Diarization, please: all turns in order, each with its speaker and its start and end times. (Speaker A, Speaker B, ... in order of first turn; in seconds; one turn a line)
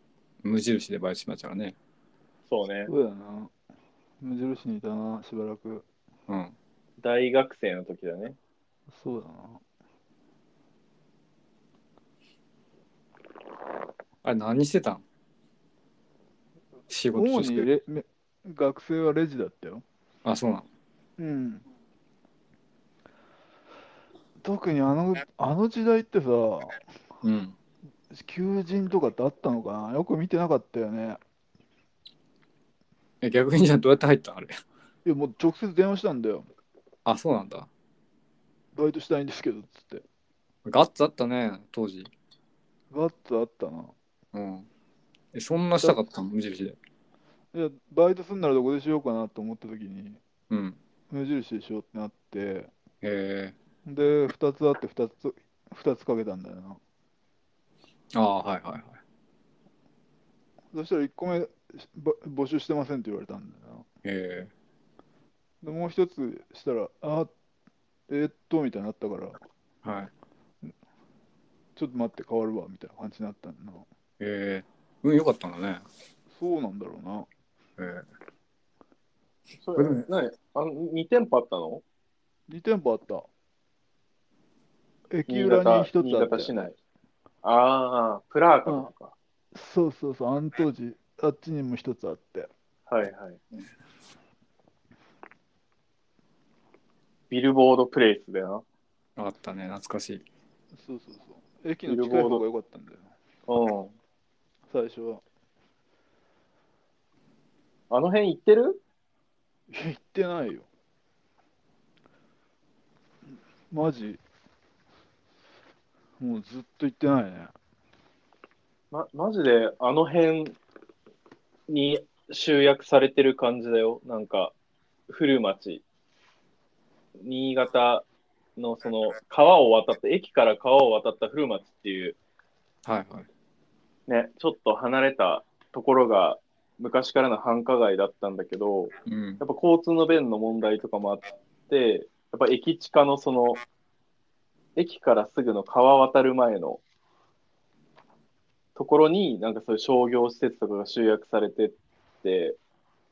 Speaker A: 0.4-1.8
Speaker B: 2.5-2.9
Speaker C: 2.9-3.5
Speaker C: 4.2-5.8
Speaker A: 6.3-6.5
Speaker B: 7.0-8.4
Speaker C: 8.9-9.6
Speaker A: 14.2-15.0
Speaker A: 16.9-17.7
Speaker C: 17.1-19.8
Speaker A: 20.2-20.7
Speaker C: 21.2-21.6
Speaker C: 24.4-26.8
Speaker A: 27.2-27.6
Speaker C: 28.1-31.2
Speaker A: 33.2-34.6
Speaker C: 35.0-36.5
Speaker A: 37.0-37.7
Speaker C: 38.7-40.0
Speaker A: 40.6-42.1
Speaker C: 42.9-43.9
Speaker A: 44.3-44.7
Speaker A: 45.3-46.8
Speaker C: 47.5-50.2
Speaker A: 50.5-50.8
Speaker C: 51.1-52.7
Speaker A: 53.0-53.5
Speaker C: 53.8-56.8
Speaker A: 58.1-59.0
Speaker C: 60.7-63.9
Speaker A: 64.0-64.5
Speaker C: 65.6-67.3
Speaker C: 68.1-69.4
Speaker A: 69.8-70.1
Speaker C: 71.8-73.8
Speaker A: 74.2-75.8
Speaker C: 76.3-77.3
Speaker A: 77.8-78.0
Speaker B: 79.6-81.8
Speaker A: 79.8-80.0
Speaker C: 82.5-83.3
Speaker C: 85.1-86.5
Speaker B: 85.3-86.8
Speaker B: 87.4-89.1
Speaker C: 89.5-92.5
Speaker B: 92.9-93.4
Speaker B: 97.3-98.6
Speaker A: 99.2-100.2
Speaker C: 100.7-103.1
Speaker B: 101.9-102.4
Speaker B: 103.5-103.9
Speaker C: 104.7-105.2
Speaker B: 107.9-108.8
Speaker C: 109.7-110.7
Speaker C: 113.7-114.2
Speaker C: 116.2-117.5
Speaker B: 118.9-120.6
Speaker B: 121.7-124.5
Speaker B: 125.1-125.8
Speaker B: 127.2-128.1
Speaker B: 128.6-132.2
Speaker A: 132.8-133.3
Speaker B: 134.1-143.6
Speaker A: 139.1-139.4
Speaker B: 144.8-146.8
Speaker B: 148.8-152.6